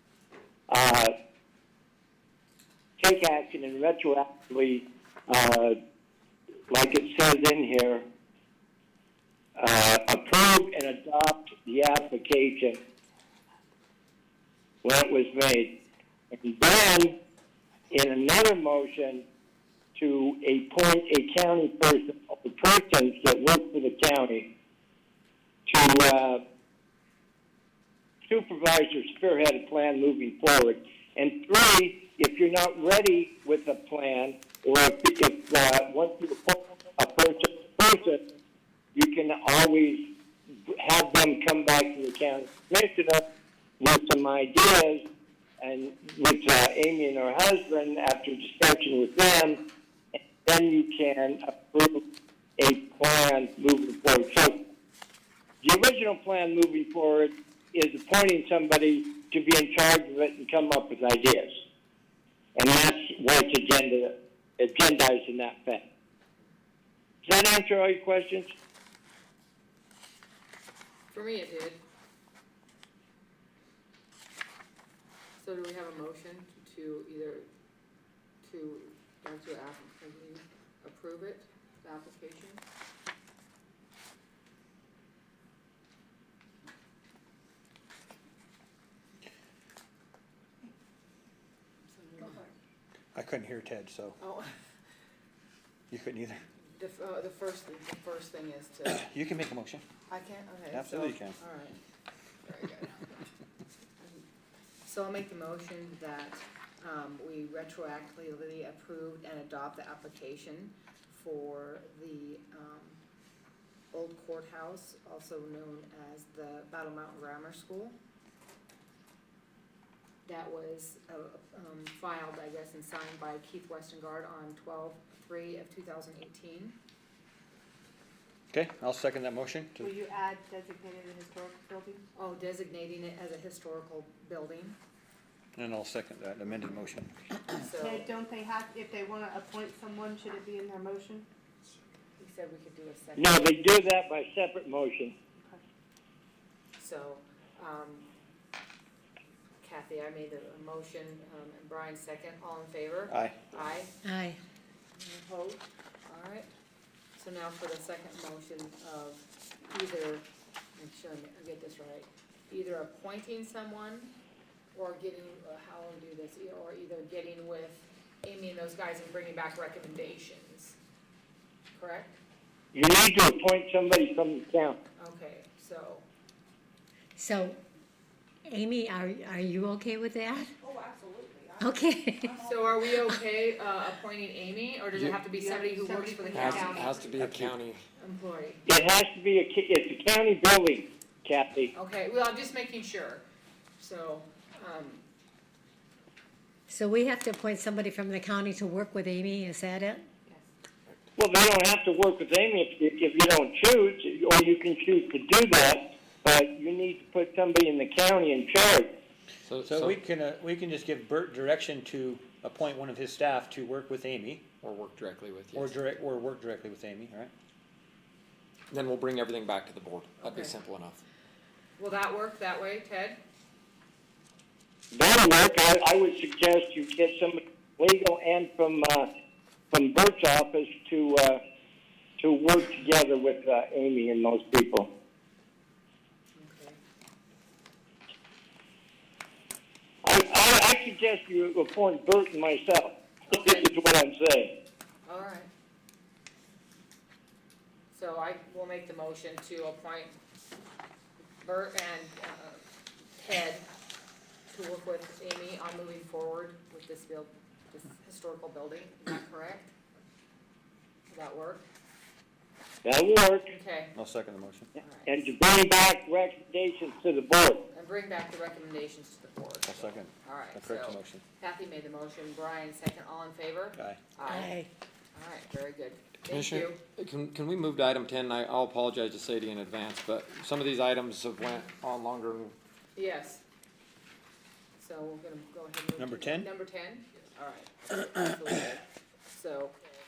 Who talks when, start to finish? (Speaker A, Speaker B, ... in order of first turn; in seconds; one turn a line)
Speaker A: 0.7-1.1
Speaker A: 3.0-5.8
Speaker A: 6.7-8.1
Speaker A: 9.6-12.8
Speaker A: 14.8-15.8
Speaker A: 16.3-17.2
Speaker A: 17.9-19.3
Speaker A: 20.0-24.5
Speaker A: 25.7-26.4
Speaker A: 28.3-38.2
Speaker A: 39.0-40.1
Speaker A: 40.7-43.2
Speaker A: 43.8-45.0
Speaker A: 45.6-49.6
Speaker A: 50.4-52.0
Speaker A: 52.6-54.6
Speaker A: 55.6-61.6
Speaker A: 62.6-65.8
Speaker A: 67.2-68.5
Speaker B: 71.1-71.8
Speaker B: 75.4-77.5
Speaker B: 78.4-82.6
Speaker B: 91.9-92.4
Speaker C: 93.2-94.2
Speaker B: 94.2-94.5
Speaker C: 95.9-96.4
Speaker B: 96.8-99.1
Speaker C: 98.9-99.8
Speaker B: 100.1-101.8
Speaker C: 100.7-101.4
Speaker B: 102.5-103.3
Speaker B: 104.8-113.0
Speaker B: 113.9-118.0
Speaker B: 120.2-126.8
Speaker C: 128.5-129.9
Speaker D: 129.8-132.0
Speaker B: 132.2-134.8
Speaker C: 135.6-137.2
Speaker B: 137.5-138.1
Speaker D: 137.8-141.3
Speaker B: 142.2-143.6
Speaker A: 143.2-145.2
Speaker B: 146.8-148.1
Speaker B: 149.6-154.0
Speaker C: 153.1-153.5
Speaker E: 154.0-154.4
Speaker B: 155.0-156.5
Speaker B: 157.2-160.2
Speaker B: 160.8-164.1
Speaker B: 164.8-170.8
Speaker B: 171.8-172.2
Speaker A: 172.7-174.8
Speaker B: 175.0-176.1
Speaker E: 177.2-177.6
Speaker E: 178.5-180.5
Speaker D: 180.6-183.1
Speaker E: 181.6-182.3
Speaker B: 182.4-186.8
Speaker D: 185.2-187.3
Speaker F: 186.3-187.8
Speaker C: 187.2-187.5
Speaker B: 188.0-188.7
Speaker A: 188.7-191.7
Speaker B: 191.8-193.2
Speaker B: 193.8-195.0
Speaker E: 196.7-200.1
Speaker A: 201.2-208.9
Speaker F: 209.5-210.0
Speaker C: 209.6-214.5
Speaker F: 214.6-215.8
Speaker C: 215.6-217.3
Speaker F: 218.7-221.0
Speaker B: 220.2-220.5
Speaker B: 221.8-223.2
Speaker A: 224.9-229.1
Speaker A: 229.7-231.4
Speaker A: 232.2-234.9
Speaker B: 236.4-236.8
Speaker A: 240.0-244.5
Speaker B: 243.4-243.7
Speaker B: 245.1-245.5
Speaker B: 247.9-250.2
Speaker B: 251.4-252.6
Speaker B: 253.2-253.7
Speaker B: 254.5-259.7
Speaker B: 261.1-261.7
Speaker A: 262.8-263.5
Speaker B: 263.5-263.9
Speaker C: 263.9-264.7
Speaker B: 264.8-265.1
Speaker A: 265.1-267.6
Speaker B: 267.7-274.6
Speaker C: 269.7-271.2
Speaker E: 274.2-274.7
Speaker B: 275.1-276.8
Speaker F: 276.3-282.6
Speaker B: 283.0-283.4
Speaker B: 284.8-289.8
Speaker C: 286.0-286.5